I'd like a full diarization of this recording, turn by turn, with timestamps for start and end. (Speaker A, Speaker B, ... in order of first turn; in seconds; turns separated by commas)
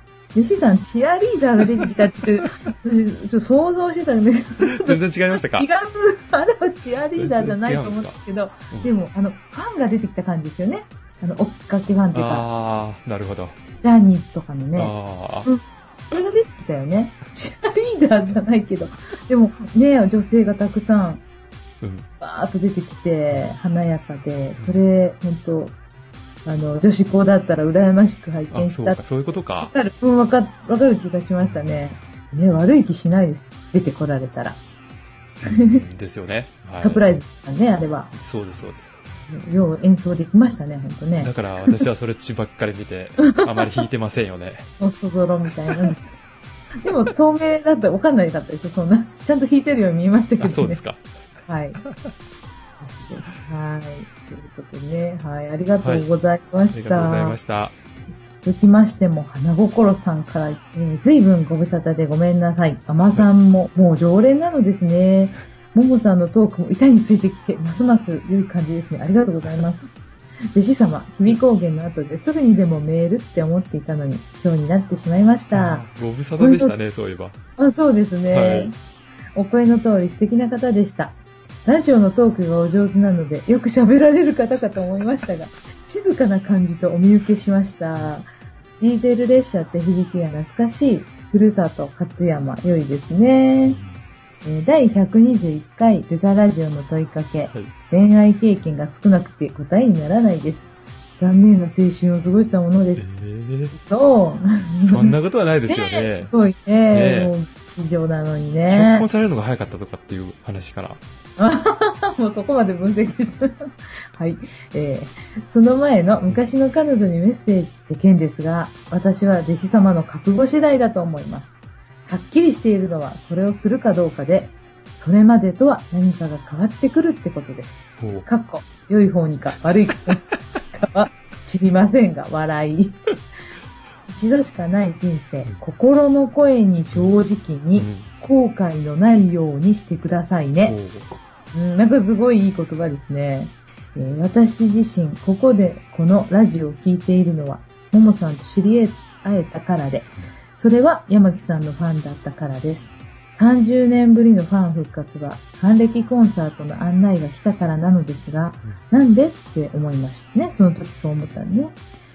Speaker A: 0.3-5.0, Speaker B: 4.6-5.7, Speaker A: 5.5-12.5, Speaker B: 7.2-8.2, Speaker B: 12.1-13.6, Speaker A: 13.8-21.2, Speaker B: 14.8-15.5, Speaker B: 21.8-22.1, Speaker A: 22.2-25.8, Speaker A: 26.4-29.0, Speaker B: 28.5-29.7, Speaker A: 29.6-34.6, Speaker B: 31.4-32.0, Speaker B: 35.4-37.1, Speaker A: 35.4-35.8, Speaker A: 36.8-38.1, Speaker B: 38.1-39.0, Speaker A: 39.2-41.8, Speaker B: 41.2-44.7, Speaker A: 43.3-43.6, Speaker A: 44.8-46.0, Speaker A: 46.8-50.8, Speaker B: 50.4-51.0, Speaker A: 51.5-51.8, Speaker A: 52.8-57.4, Speaker B: 56.7-57.7, Speaker A: 58.4-69.9, Speaker A: 70.5-75.9, Speaker B: 75.5-77.4, Speaker A: 76.4-76.8, Speaker A: 77.6-78.8, Speaker B: 78.3-78.7, Speaker A: 79.3-88.3, Speaker A: 88.8-93.8, Speaker A: 94.4-100.7, Speaker A: 101.2-103.0, Speaker B: 103.0-103.8, Speaker A: 103.7-105.2, Speaker B: 104.8-106.3, Speaker A: 105.7-109.1, Speaker B: 106.9-107.3, Speaker B: 108.7-111.0, Speaker A: 111.4-121.5, Speaker A: 122.1-133.0, Speaker B: 128.0-128.3, Speaker A: 134.1-140.8, Speaker B: 137.8-138.1, Speaker B: 140.6-141.1, Speaker A: 141.5-161.8